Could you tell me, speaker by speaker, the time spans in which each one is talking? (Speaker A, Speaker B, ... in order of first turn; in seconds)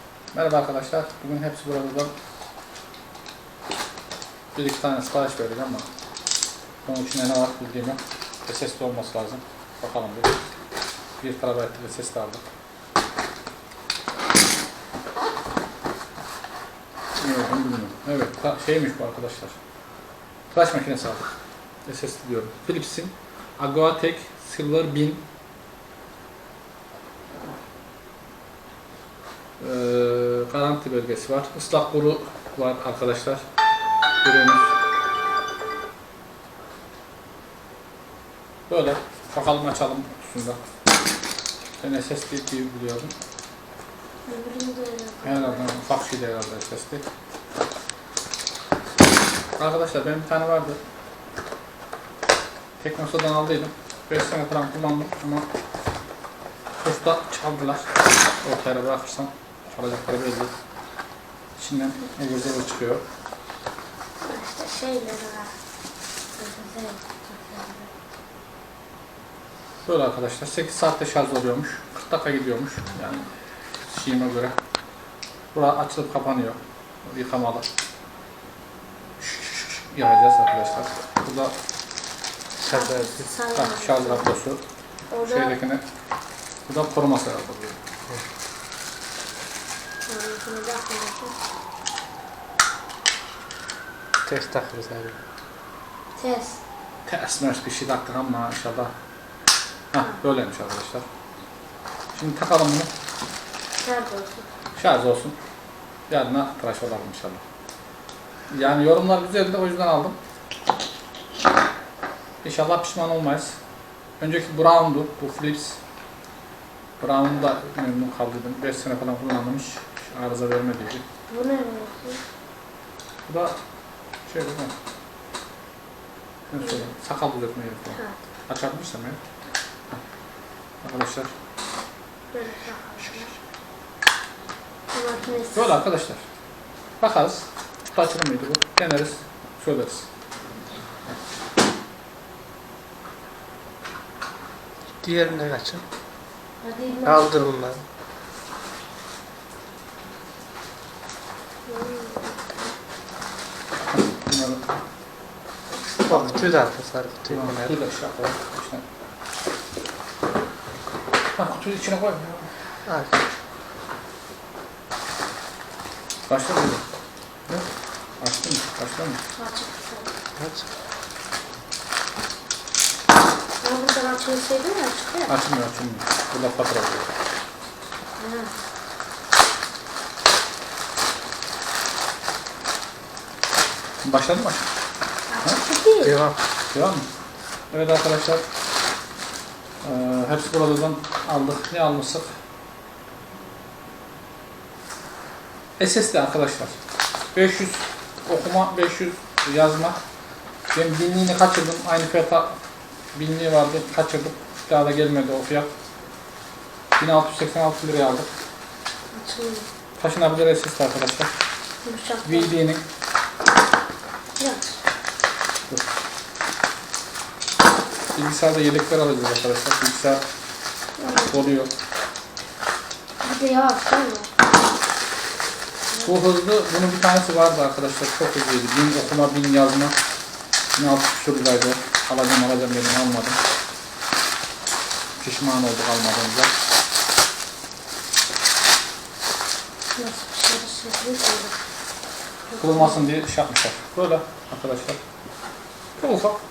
Speaker A: 0.3-2.1, 4.5-5.9, 6.8-10.4, 11.2-12.4, 17.2-19.6, 20.5-21.3, 21.8-25.2, 29.6-33.4, 34.2-34.7, 38.7-40.6, 41.8-43.1, 45.2-47.0, 49.6-50.8, 52.8-55.5, 56.8-60.5, 61.6-63.0, 69.8-73.3, 73.9-74.6, 75.5-77.7, 79.2-81.5, 83.5-84.6, 85.3-85.8, 86.7-87.8, 97.0-98.9, 99.9-101.0, 102.1-102.9, 104.7-105.3, 106.1-107.4, 108.5-110.2, 112.4-113.5, 114.2-115.8, 117.0-121.0, 123.3-123.5, 124.2-124.7, 126.5-129.2, 130.8-131.3, 135.5-136.2, 137.0-140.1, 153.8-154.7, 156.1-156.4, 157.3-158.8, 161.3-162.6, 166.3-166.8, 168.2-169.2, 175.3-177.1, 184.0-184.7, 186.7-187.1, 187.7-188.4, 189.8-192.3, 195.8-196.8, 197.3-200.0, 200.7-202.6, 203.1-205.7, 207.0-208.3, 210.0-211.3, 212.2-212.8, 218.1-220.2, 221.3-221.7, 226.0-229.9, 230.7-233.4, 235.2-236.5, 242.6-245.0, 246.0-246.4
Speaker B: 44.2-45.6, 64.2-65.5, 66.3-67.9, 82.7-84.2, 85.1-85.5, 90.1-91.4, 96.2-96.6, 103.8-104.5, 121.3-122.2, 132.3-133.3, 134.9-135.7, 146.6-147.3, 151.7-152.6, 169.3-170.1, 173.6-175.3, 178.2-178.5, 185.3-186.2, 209.1-209.7, 211.8-212.5, 214.4-214.8, 221.0-221.4, 223.2-224.3, 239.9-241.6
Speaker C: 82.6-83.3, 94.2-95.2, 145.0-145.8, 147.0-147.8, 156.0-157.8, 162.8-163.2, 170.4-170.7, 186.0-186.4